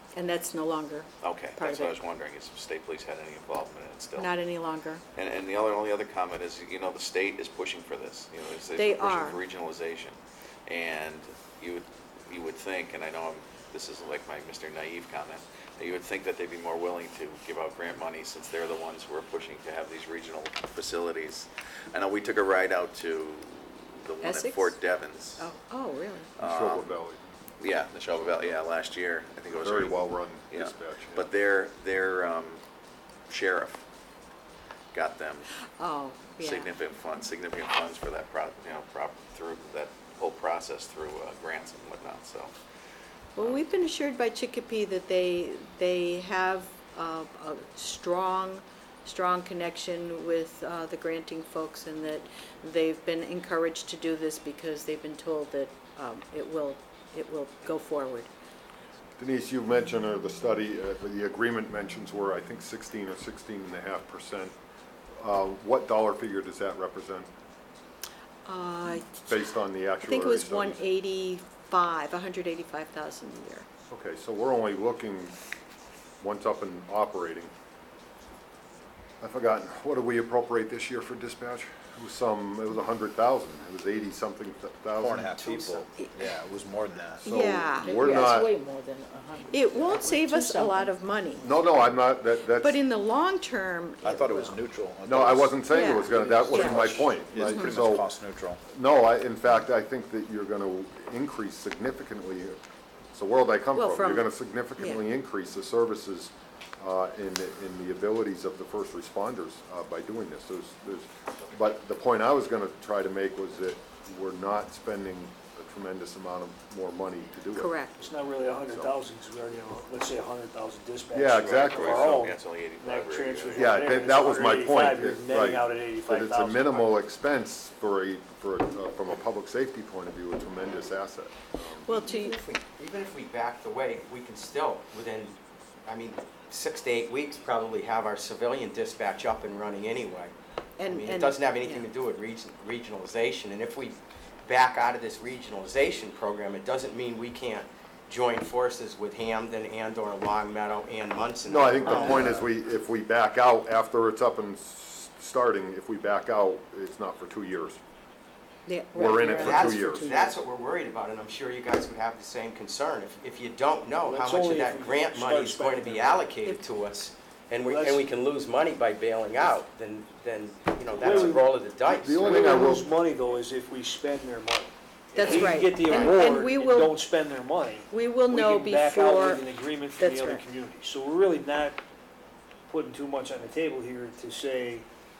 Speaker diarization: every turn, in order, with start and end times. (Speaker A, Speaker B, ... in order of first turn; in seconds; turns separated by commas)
Speaker A: 0.1-1.9, Speaker B: 1.2-4.3, Speaker A: 4.1-5.0, Speaker B: 5.1-25.5, Speaker A: 8.8-9.4, Speaker A: 24.2-24.8, Speaker A: 25.4-26.3, Speaker B: 26.4-26.9, Speaker C: 26.4-27.2, Speaker B: 27.6-32.6, Speaker C: 29.5-31.3, Speaker B: 33.3-33.8, Speaker B: 34.9-35.5, Speaker A: 35.8-36.7, Speaker B: 36.4-42.5, Speaker A: 43.4-58.3, Speaker C: 59.2-64.5, Speaker C: 65.2-67.3, Speaker A: 68.4-69.3, Speaker C: 69.2-70.8, Speaker A: 70.0-73.7, Speaker C: 73.9-75.3, Speaker C: 76.2-77.5, Speaker C: 79.2-85.5, Speaker D: 85.0-87.3, Speaker A: 87.2-88.0, Speaker C: 87.2-88.5, Speaker E: 87.8-91.0, Speaker A: 89.5-91.6, Speaker C: 91.4-92.8, Speaker A: 92.5-94.5, Speaker D: 94.0-98.6, Speaker C: 95.0-98.1, Speaker A: 95.7-96.8, Speaker C: 98.7-102.6, Speaker C: 103.1-117.8, Speaker A: 103.7-105.0, Speaker A: 117.5-118.0, Speaker F: 118.0-126.9, Speaker C: 121.1-122.1, Speaker B: 121.4-123.8, Speaker C: 123.5-131.9, Speaker A: 131.8-132.4, Speaker G: 131.9-140.3, Speaker A: 140.8-141.9, Speaker G: 140.8-152.5, Speaker C: 151.4-157.8, Speaker A: 151.8-152.3, Speaker A: 158.7-160.3, Speaker C: 158.9-160.1, Speaker G: 159.3-172.6, Speaker F: 164.0-166.2, Speaker F: 167.6-168.0, Speaker F: 170.9-171.5, Speaker C: 171.9-172.9, Speaker F: 172.2-181.8, Speaker A: 175.1-177.0, Speaker G: 175.2-176.2, Speaker A: 177.9-180.4, Speaker F: 182.7-184.8